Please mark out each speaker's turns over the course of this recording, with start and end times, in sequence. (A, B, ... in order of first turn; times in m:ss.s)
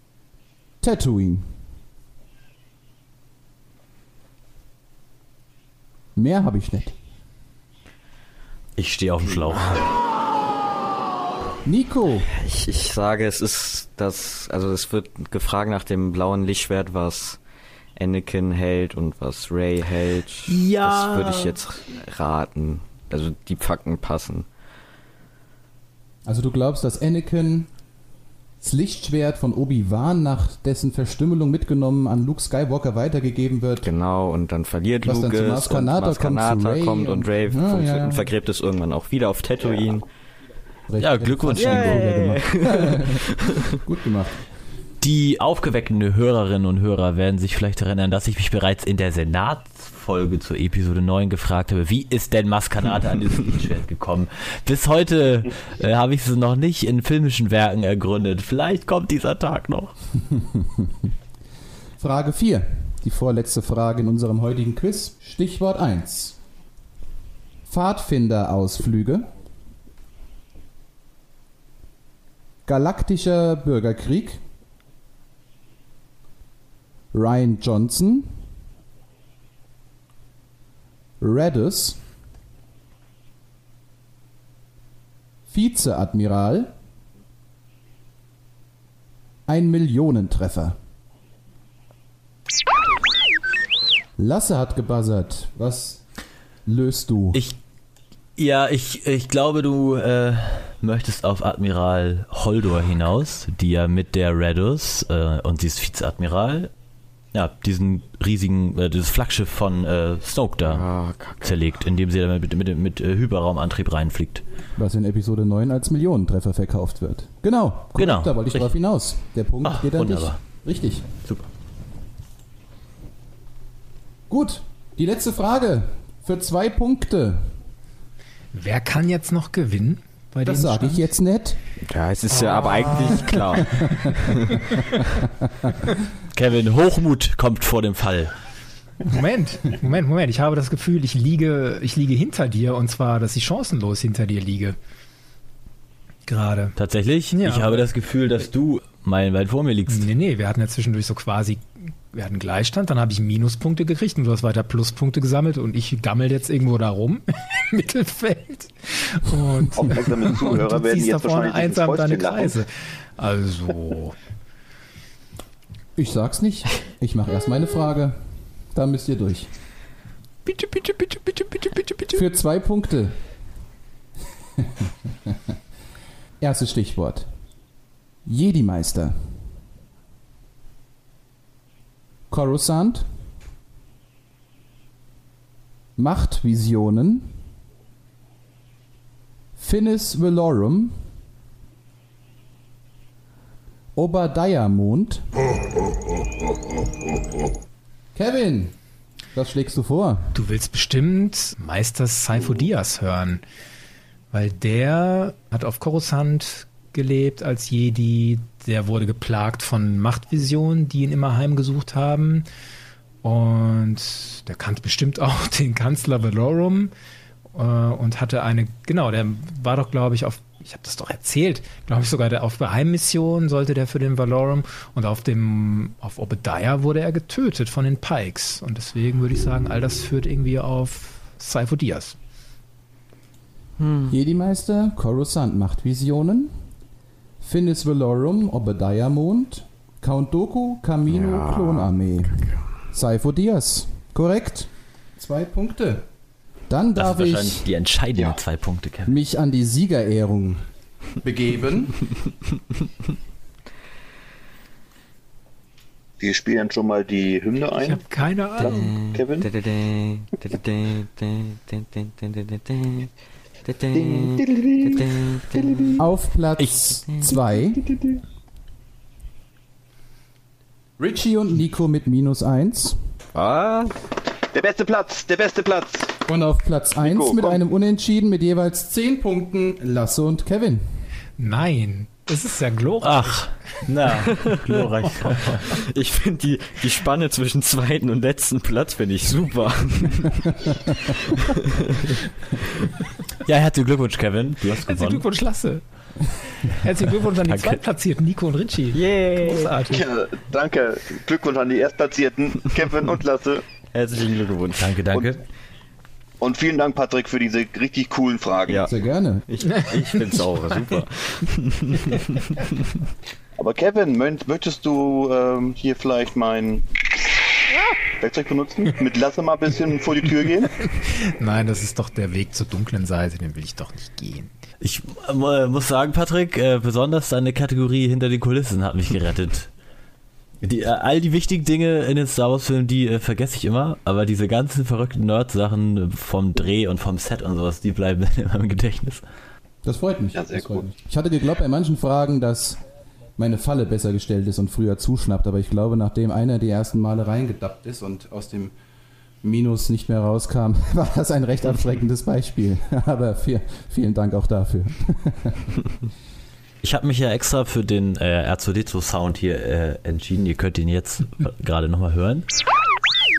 0:00.8-0:01.6 A
0:06.2-0:07.0 A
0:08.8-0:09.9 B
0:11.6-0:12.3 A
0:12.4-0:17.4 C
0:18.0-0:24.5 C
0:20.5-0:21.6 B
0:26.3-0:27.7 A
0:28.6-0:33.9 A
0:33.8-0:40.0 C
0:35.0-0:38.4 A
0:40.9-0:44.4 A
0:41.0-0:42.3 B
0:41.6-0:43.8 C
0:45.0-0:59.9 B
1:00.6-1:00.9 A
1:02.0-1:06.4 A
1:07.7-1:09.3 A
1:12.6-1:14.4 A
1:17.1-1:18.4 A
1:21.2-1:22.0 A
1:25.5-1:26.7 A
1:29.5-1:30.8 A
1:34.2-1:36.0 A
1:36.7-1:37.4 A
1:38.4-1:46.7 B
1:47.3-1:50.9 B
1:50.6-1:51.6 C
1:51.4-1:54.4 B
1:54.8-2:01.0 A
1:58.0-1:58.6 B
1:59.6-2:00.4 B
2:04.3-2:07.5 A
2:08.5-2:11.1 D
2:10.4-2:11.6 A
2:11.8-2:14.6 C
2:12.3-2:15.1 D
2:16.3-2:18.3 B
2:19.0-2:24.8 D
2:26.3-2:26.8 D
2:26.8-2:30.1 B
2:27.3-2:27.9 D
2:29.9-2:44.2 D
2:39.8-2:42.6 E
2:46.0-2:48.2 A
2:48.7-2:49.5 A
2:50.4-2:52.2 D
2:52.1-2:53.2 A
2:54.6-2:55.4 A
2:56.4-2:57.3 A
2:58.3-2:59.4 A
3:02.3-3:03.1 A
3:06.0-3:07.4 A
3:09.6-3:11.0 A
3:14.0-3:15.3 A
3:18.2-3:18.7 A
3:19.3-3:20.4 A
3:20.3-3:23.4 D
3:24.3-3:32.5 D
3:33.2-3:36.9 D
3:37.5-3:52.2 D
3:53.8-3:54.1 C
3:54.1-3:56.6 A
3:57.4-4:06.1 A
4:01.1-4:02.6 C
4:06.7-4:07.7 A
4:07.0-4:09.1 B
4:09.1-4:10.7 A
4:11.2-4:12.1 A
4:16.2-4:18.0 E
4:17.8-4:18.9 D
4:18.6-4:19.5 E
4:18.7-4:23.1 C
4:23.6-4:26.0 C
4:23.9-4:26.0 E
4:26.0-4:27.8 A
4:27.9-4:28.2 C
4:31.0-4:33.0 A
4:33.4-4:34.0 C
4:34.5-4:36.2 E
4:36.3-4:40.8 A
4:37.0-4:37.6 E
4:41.4-4:43.5 D
4:43.0-4:45.7 B
4:45.7-4:52.2 C
4:53.5-4:55.2 B
4:54.9-4:55.8 D
4:56.6-5:00.0 D
4:57.5-4:57.8 B
4:58.9-4:59.8 C
4:59.9-5:03.7 E
5:03.9-5:05.0 C
5:04.8-5:05.4 B
5:06.4-5:08.9 E
5:08.9-5:09.4 A
5:09.5-5:12.6 C
5:13.6-5:17.3 E
5:18.2-5:20.8 E
5:20.9-5:24.5 D
5:24.8-5:29.7 B
5:30.6-5:39.2 B
5:39.8-5:42.8 A
5:40.4-5:40.9 E
5:43.4-5:48.7 A
5:49.4-5:55.8 A
5:56.8-6:02.5 B